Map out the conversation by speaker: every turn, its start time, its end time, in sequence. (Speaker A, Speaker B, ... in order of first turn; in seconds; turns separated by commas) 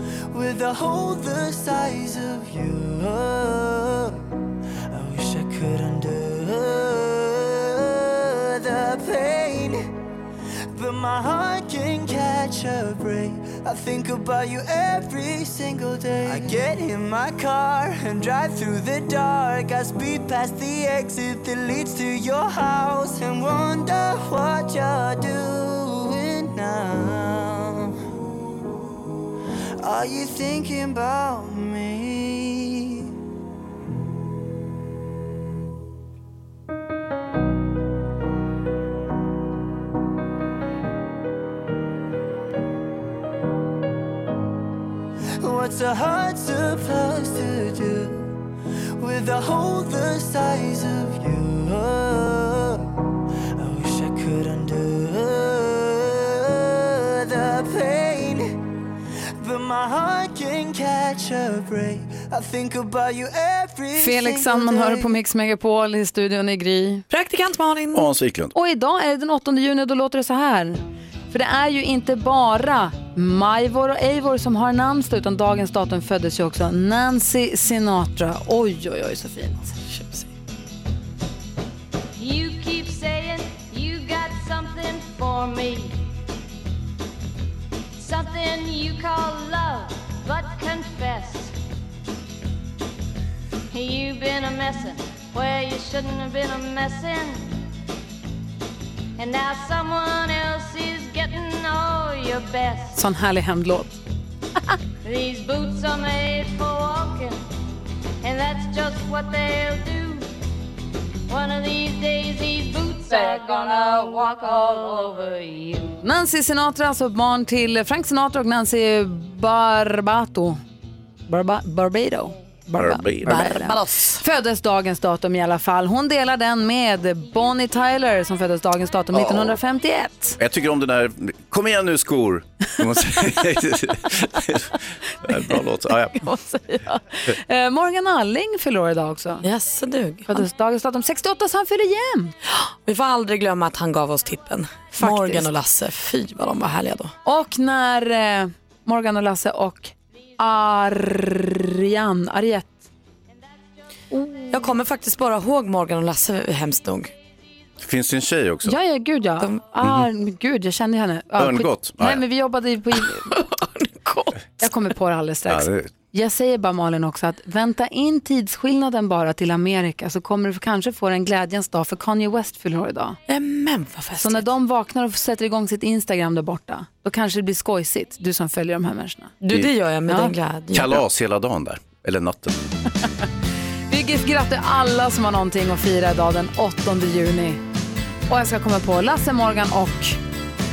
Speaker A: 0.3-4.3, Speaker A: 4.9-9.9, Speaker A: 10.7-28.0, Speaker A: 29.8-33.1, Speaker A: 45.4-48.4, Speaker A: 49.0-58.6, Speaker A: 59.4-65.2, Speaker B: 64.0-67.0, Speaker C: 67.1-68.0, Speaker D: 67.9-68.5, Speaker B: 68.5-79.8, Speaker C: 79.9-80.3, Speaker E: 82.2-86.0, Speaker E: 88.0-91.5, Speaker E: 93.7-97.5, Speaker E: 99.2-103.0, Speaker B: 103.0-104.0, Speaker E: 105.0-107.4, Speaker E: 108.2-110.2, Speaker E: 111.3-116.0, Speaker B: 116.0-120.6, Speaker B: 121.3-130.4, Speaker D: 122.8-123.5, Speaker C: 123.3-124.2, Speaker D: 129.1-129.6, Speaker D: 130.4-136.2, Speaker B: 136.1-139.4, Speaker C: 139.4-140.4, Speaker B: 140.3-142.3, Speaker C: 142.5-147.1, Speaker B: 145.0-145.5, Speaker B: 147.2-152.9, Speaker B: 154.1-154.6, Speaker C: 154.5-157.1, Speaker D: 157.8-158.8, Speaker B: 158.7-163.3, Speaker D: 159.8-160.1, Speaker D: 161.4-162.2, Speaker C: 162.9-164.4, Speaker B: 164.6-173.2, Speaker D: 165.5-165.9, Speaker C: 173.3-174.5, Speaker B: 174.2-179.3, Speaker C: 179.4-181.0, Speaker B: 180.1-180.3, Speaker D: 180.7-182.6, Speaker B: 183.9-187.6, Speaker B: 188.3-190.2